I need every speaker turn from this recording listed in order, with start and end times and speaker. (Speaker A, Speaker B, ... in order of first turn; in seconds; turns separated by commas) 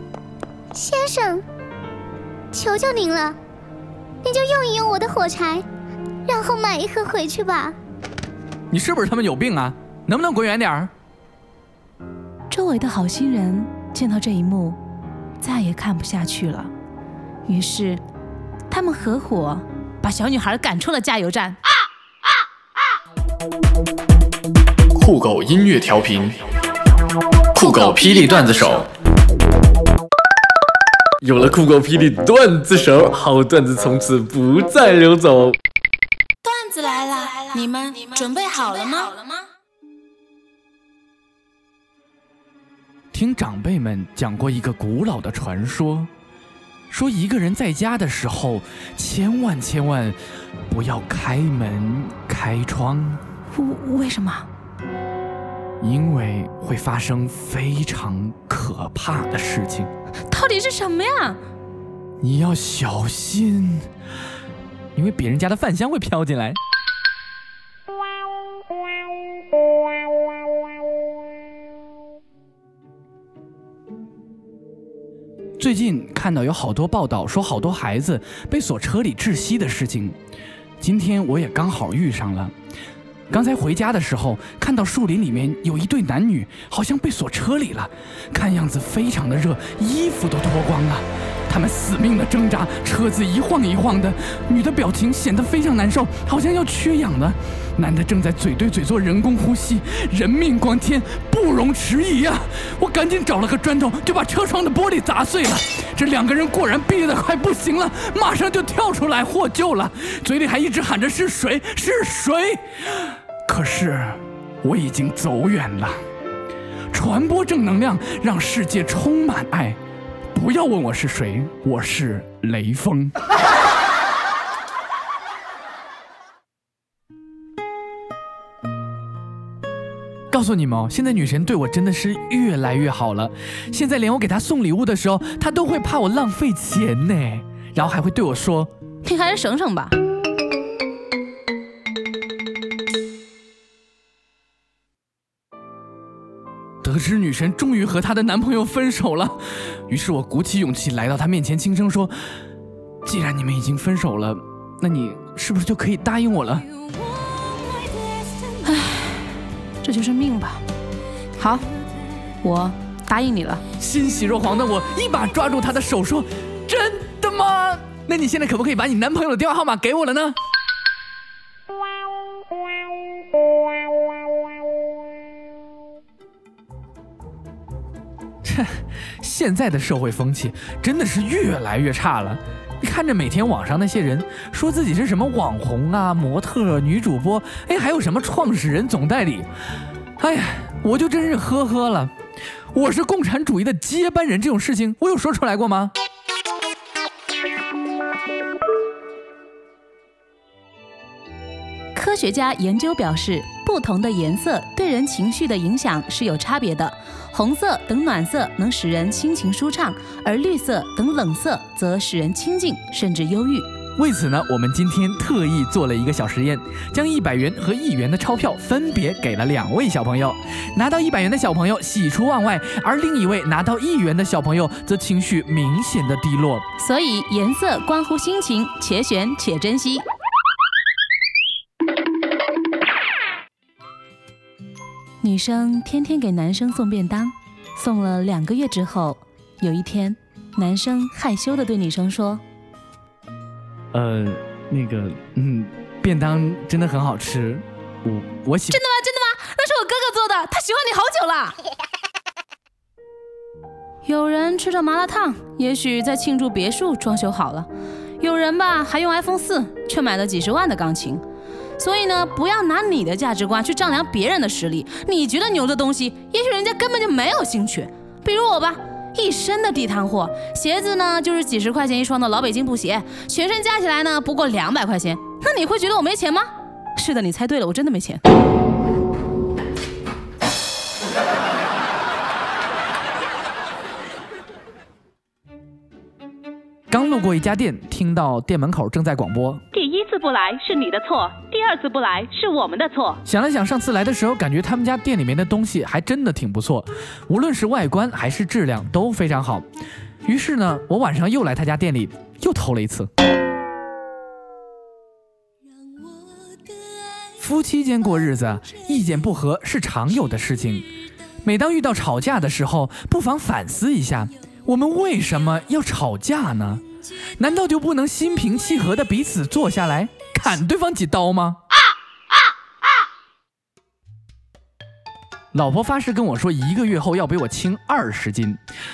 Speaker A: 0.8-1.4, Speaker A: 2.5-3.4, Speaker A: 4.2-5.7, Speaker A: 6.3-7.8, Speaker B: 8.7-10.9, Speaker C: 12.5-14.8, Speaker C: 15.4-16.7, Speaker C: 17.5-18.0, Speaker C: 18.7-21.6, Speaker D: 25.0-26.4, Speaker D: 27.6-28.9, Speaker C: 27.6-28.8, Speaker D: 31.2-35.6, Speaker C: 36.5-39.4, Speaker B: 43.1-46.1, Speaker B: 46.9-50.2, Speaker B: 50.7-53.2, Speaker C: 53.5-54.5, Speaker B: 55.8-59.9, Speaker C: 60.3-61.4, Speaker B: 62.2-63.9, Speaker B: 65.0-66.6, Speaker B: 75.6-80.2, Speaker B: 80.8-82.5, Speaker B: 83.3-116.0, Speaker B: 116.9-119.8, Speaker B: 120.3-123.2, Speaker B: 130.3-138.7, Speaker C: 139.0-139.9, Speaker B: 146.8-152.1, Speaker B: 153.1-156.7, Speaker C: 158.6-160.6, Speaker C: 161.4-161.7, Speaker C: 162.4-163.6, Speaker B: 163.8-170.4, Speaker B: 178.4-189.5, Speaker B: 190.2-192.1, Speaker B: 192.7-195.9, Speaker C: 201.9-213.7, Speaker B: 214.0-226.6, Speaker C: 226.8-230.1, Speaker C: 235.2-242.4, Speaker B: 243.9-248.8, Speaker C: 248.7-251.6, Speaker C: 254.1-257.7, Speaker C: 258.2-261.2, Speaker C: 261.8-278.2, Speaker B: 286.9-289.6, Speaker C: 289.7-293.2, Speaker B: 293.2-299.7, Speaker B: 300.2-303.1, Speaker B: 307.4-310.9, Speaker B: 311.4-316.8, Speaker B: 317.4-321.6, Speaker B: 325.5-328.6